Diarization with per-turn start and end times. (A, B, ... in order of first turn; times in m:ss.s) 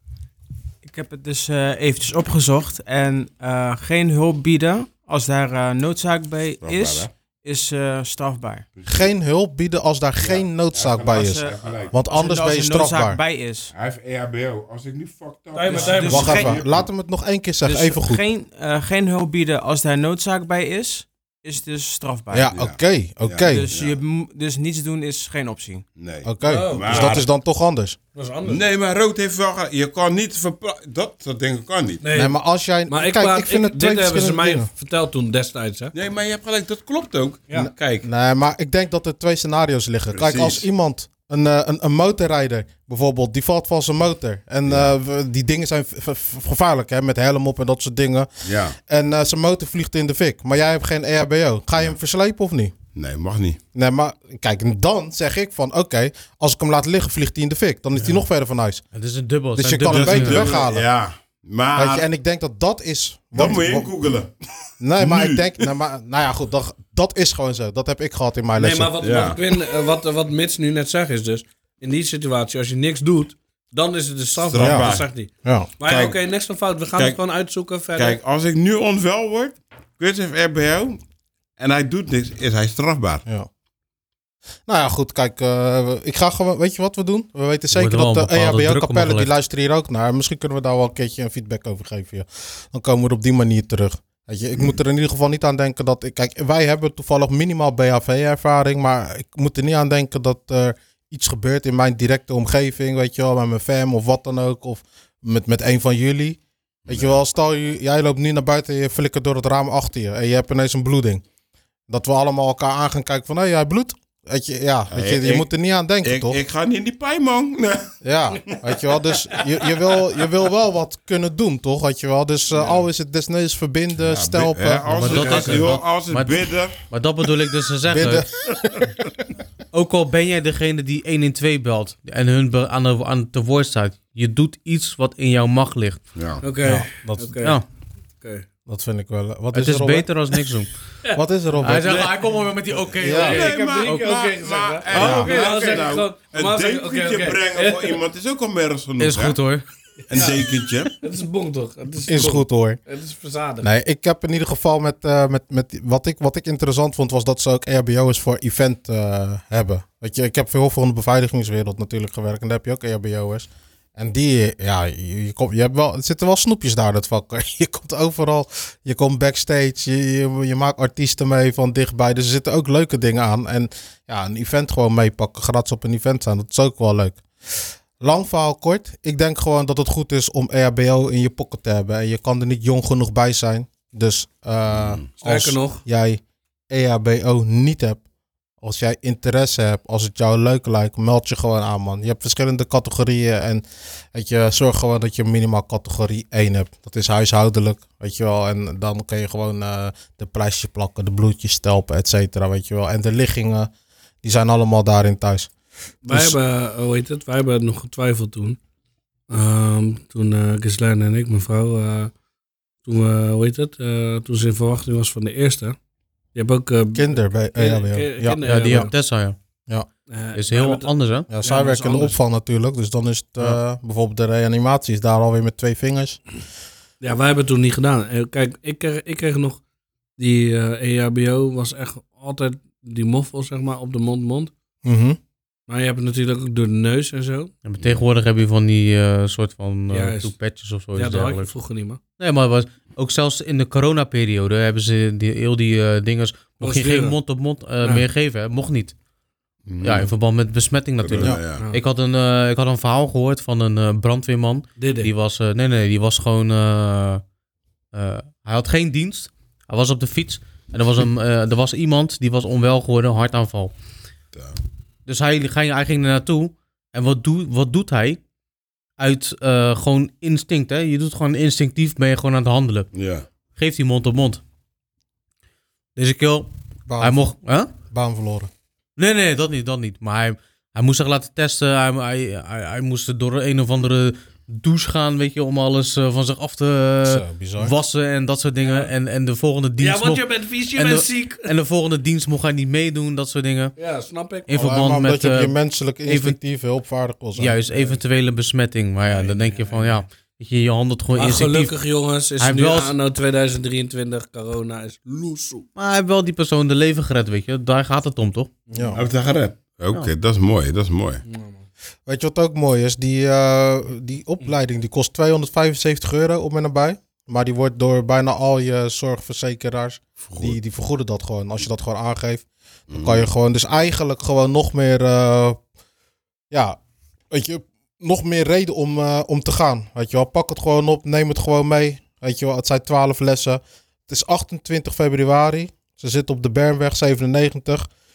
0:00.8-0:08.6 A
0:06.6-0:07.1 B
0:08.8-0:09.1 B
0:08.9-0:13.2 C
0:10.2-0:12.0 B
0:11.2-0:13.7 A
0:13.7-0:16.9 B
0:15.5-0:16.6 D
0:15.7-0:16.6 A
0:16.1-0:18.2 C
0:17.6-0:22.5 A
0:22.3-0:23.7 C
0:22.5-0:24.0 B
0:23.4-0:25.8 A
0:26.0-0:27.2 B
0:26.2-0:28.0 C
0:26.4-0:27.2 D
0:28.2-0:28.6 D
0:28.5-0:32.0 B
0:32.0-0:32.4 D
0:32.1-0:34.7 C
0:32.9-0:35.9 D
0:35.9-0:38.1 B
0:37.6-0:52.8 C
0:40.1-0:40.6 B
0:44.7-0:44.9 B
0:48.4-0:48.8 B
0:53.0-0:53.6 B
0:53.8-0:58.8 C
0:58.0-0:58.2 E
0:58.9-1:00.6 E
0:59.5-1:00.9 C
0:59.9-1:02.1 B
1:01.8-1:03.9 C
1:03.3-1:04.3 B
1:04.8-1:08.9 C
1:05.0-1:05.7 B
1:08.6-1:18.2 D
1:09.0-1:09.4 B
1:14.5-1:15.1 B
1:14.6-1:14.9 C
1:15.4-1:15.7 C
1:15.8-1:16.2 B
1:18.0-1:21.0 B
1:21.6-1:23.2 B
1:24.7-1:51.2 C
1:27.7-1:29.3 E
1:46.9-1:47.1 B
1:51.9-1:56.4 C
1:54.9-1:55.5 B
1:56.0-1:57.9 B
1:58.0-2:05.6 C
2:04.0-2:06.8 B
2:04.9-2:08.3 E
2:07.9-2:08.9 C
2:09.7-2:16.0 E
2:16.2-2:16.4 B
2:16.4-2:17.6 D
2:16.6-2:17.4 C
2:18.2-2:18.5 D
2:18.7-2:20.1 C
2:19.5-2:20.8 E
2:21.1-2:22.1 C
2:21.6-2:24.2 E
2:23.0-2:23.4 C
2:23.1-2:28.0 D
2:23.2-2:29.4 B
2:24.9-2:25.3 C
2:29.0-2:29.6 E
2:30.1-2:33.7 D
2:30.1-2:31.0 B
2:32.1-2:32.8 C
2:33.6-3:08.0 C
3:04.8-3:05.0 B
3:05.2-3:05.8 D
3:08.6-3:23.7 C
3:24.2-3:25.5 C
3:26.0-3:28.6 D
3:26.1-3:26.4 C
3:29.3-3:32.1 D
3:32.8-3:35.8 D
3:36.4-3:38.9 D
3:36.9-3:38.9 C
3:38.4-3:39.4 E
3:40.1-3:42.2 D
3:40.4-3:41.3 E
3:41.3-3:46.2 C
3:47.0-3:49.6 D
3:50.2-3:54.5 D
3:54.8-3:55.2 C
3:55.7-3:57.5 D
3:57.6-4:01.5 E
3:59.9-4:00.3 D
4:01.0-4:02.0 D
4:02.2-4:09.0 E
4:06.6-4:07.2 D
4:09.7-4:10.1 B
4:09.8-4:17.2 E
4:11.0-4:11.6 B
4:11.6-4:11.8 D
4:14.8-4:15.1 D
4:17.9-4:23.7 E
4:25.1-4:28.2 E
4:29.0-4:32.9 E
4:32.9-4:33.3 B
4:33.6-4:34.4 E
4:36.0-4:36.5 E
4:36.9-4:37.3 C
4:37.0-4:37.7 E
4:37.9-4:38.5 C
4:39.0-4:53.7 E
4:47.0-4:47.8 C
4:48.6-4:48.9 D
4:49.8-4:51.5 D
4:53.8-4:54.5 D
4:54.5-4:55.5 E
4:54.5-4:57.6 C
4:56.1-4:56.4 E
4:57.4-5:01.8 E
4:57.7-4:58.0 D
4:59.1-5:00.0 D
5:01.1-5:05.7 D
5:02.4-5:02.9 E
5:05.8-5:08.5 E
5:08.7-5:09.0 D
5:08.7-5:09.0 C
5:09.0-5:11.2 B
5:11.2-5:11.7 D
5:12.1-5:25.6 C
5:20.3-5:20.6 B
5:22.9-5:23.3 B
5:26.5-5:26.8 C
5:27.3-5:37.9 C